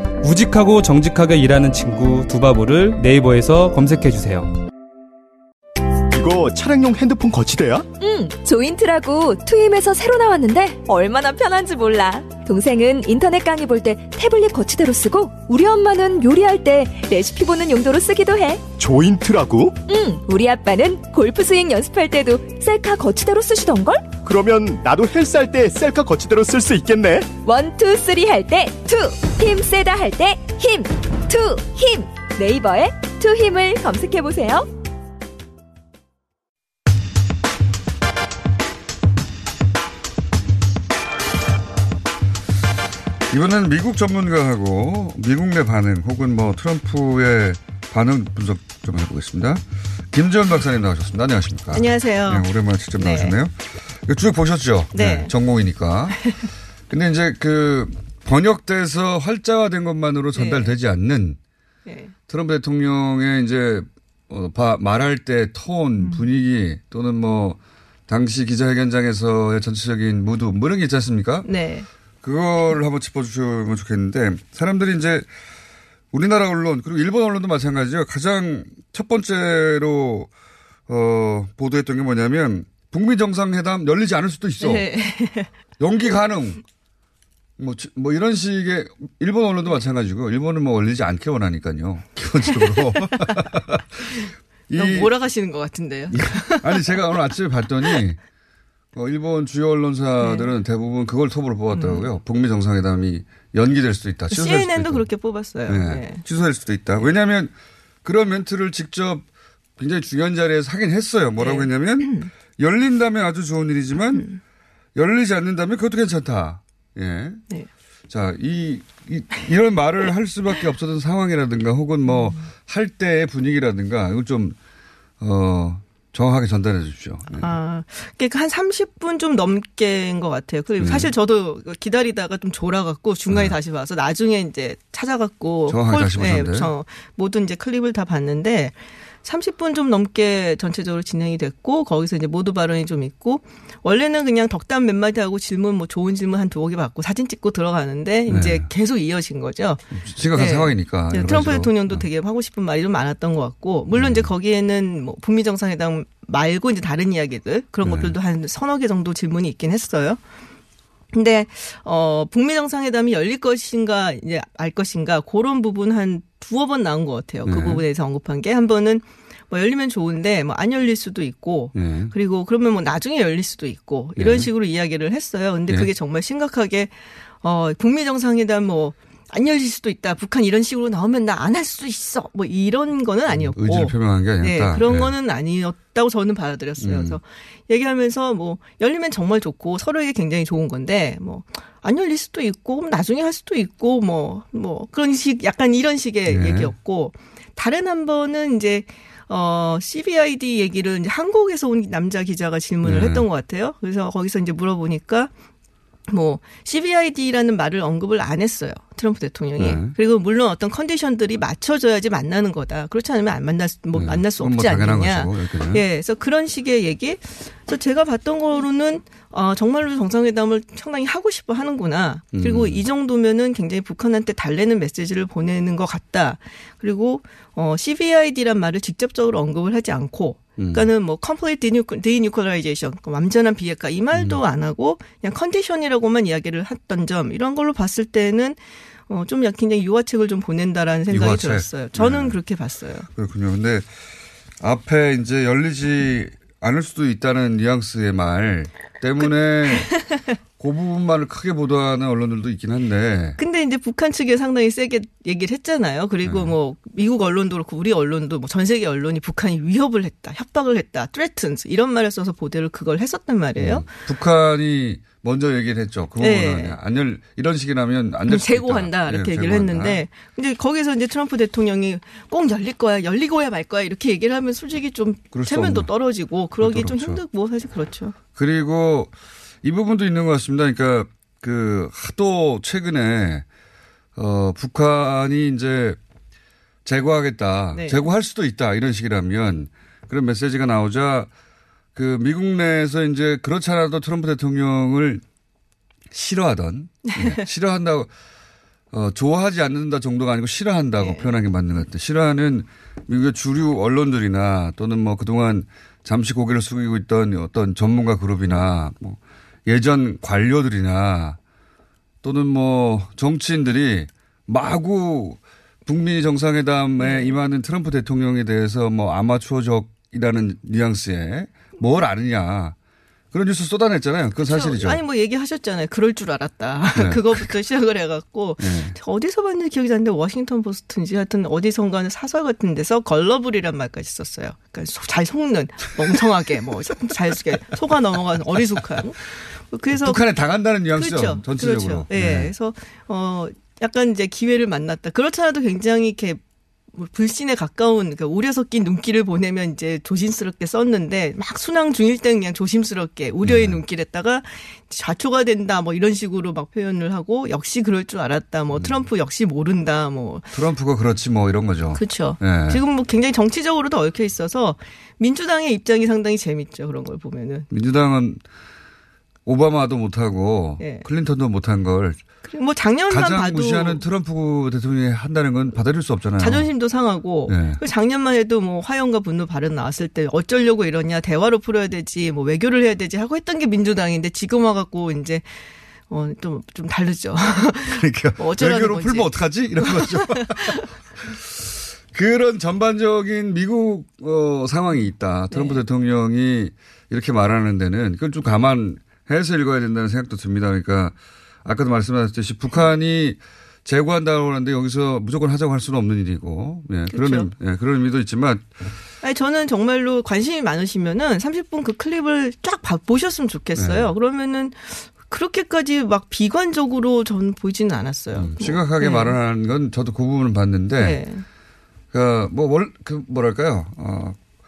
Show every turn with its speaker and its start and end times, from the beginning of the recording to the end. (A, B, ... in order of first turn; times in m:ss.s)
0:00.2-0:04.5 A
0:06.1-0:07.9 B
0:08.0-0:18.7 C
0:18.8-0:19.8 B
0:19.9-0:24.1 C
0:24.2-0:27.3 B
0:27.4-0:34.7 C
0:43.3-0:56.2 D
0:51.7-0:53.4 E
0:54.9-0:55.3 E
0:56.2-0:56.5 E
0:56.9-1:01.4 D
1:00.4-1:00.7 E
1:01.9-1:02.1 E
1:02.3-1:11.5 D
1:06.0-1:06.3 E
1:11.4-1:11.9 E
1:12.2-1:15.3 D
1:16.1-1:20.3 D
1:20.9-1:24.9 D
1:24.6-1:25.5 E
1:25.8-1:26.6 D
1:27.6-1:34.0 D
1:32.5-1:33.4 E
1:34.7-1:35.1 D
1:34.8-1:37.2 E
1:36.1-1:38.2 D
1:38.9-1:47.5 D
1:40.2-1:40.5 E
1:41.7-1:42.1 E
1:44.3-1:46.2 E
1:48.0-1:49.2 D
1:49.8-1:54.2 D
1:51.4-1:52.3 E
1:54.1-1:54.4 E
1:55.0-1:57.4 D
1:58.1-2:04.6 D
2:02.0-2:02.4 E
2:05.2-2:07.5 D
2:07.3-2:29.8 E
2:10.8-2:11.1 D
2:15.7-2:16.7 D
2:28.3-2:28.7 D
2:29.9-2:32.0 D
2:30.3-2:40.2 E
2:33.9-2:34.3 D
2:37.8-2:38.2 D
2:41.1-3:25.3 E
2:47.4-2:47.8 D
2:51.8-2:52.1 D
2:54.2-2:54.5 D
3:03.3-3:05.1 D
3:06.8-3:07.2 D
3:16.3-3:16.7 D
3:22.8-3:23.2 D
3:26.1-4:03.1 E
3:29.6-3:30.0 D
3:33.9-3:35.8 D
3:42.3-3:42.8 D
3:50.6-3:50.9 D
3:54.1-3:54.4 D
4:01.1-4:02.4 D
4:03.2-4:03.9 D
4:04.6-4:09.9 D
4:09.2-4:10.2 E
4:10.6-4:13.4 D
4:13.4-4:23.9 E
4:16.2-4:16.5 D
4:23.6-4:30.0 D
4:26.2-4:26.8 E
4:28.3-4:38.2 E
4:35.3-4:37.2 D
4:38.4-4:43.5 D
4:44.2-4:46.0 D
4:46.8-4:51.3 D
4:47.7-4:48.1 E
4:52.0-4:55.2 D
4:56.1-4:58.1 D
4:57.0-4:57.4 E
4:58.9-5:11.4 D
5:01.0-5:01.3 E
5:12.2-5:22.8 D
5:17.0-5:17.4 E
5:23.3-5:25.0 D
5:24.4-5:40.2 E
5:27.0-5:27.5 D
5:28.6-5:29.0 D
5:40.0-5:42.5 D
5:40.9-5:46.4 E
5:46.9-6:00.6 E
5:53.4-5:53.8 D
5:58.7-5:59.1 D
6:00.5-6:02.8 D
6:01.9-6:07.7 E
6:07.7-6:08.4 D
6:09.5-6:12.2 D
6:10.8-6:11.1 E
6:12.4-6:14.0 E
6:13.1-6:16.7 D
6:16.4-6:30.8 E
6:17.5-6:17.8 D
6:27.9-6:48.7 D
6:35.5-6:35.8 E
6:47.1-6:47.5 E
6:49.2-6:59.4 E
6:53.8-6:54.1 D
6:58.4-7:01.2 D
7:01.0-7:01.4 E
7:02.1-7:04.4 D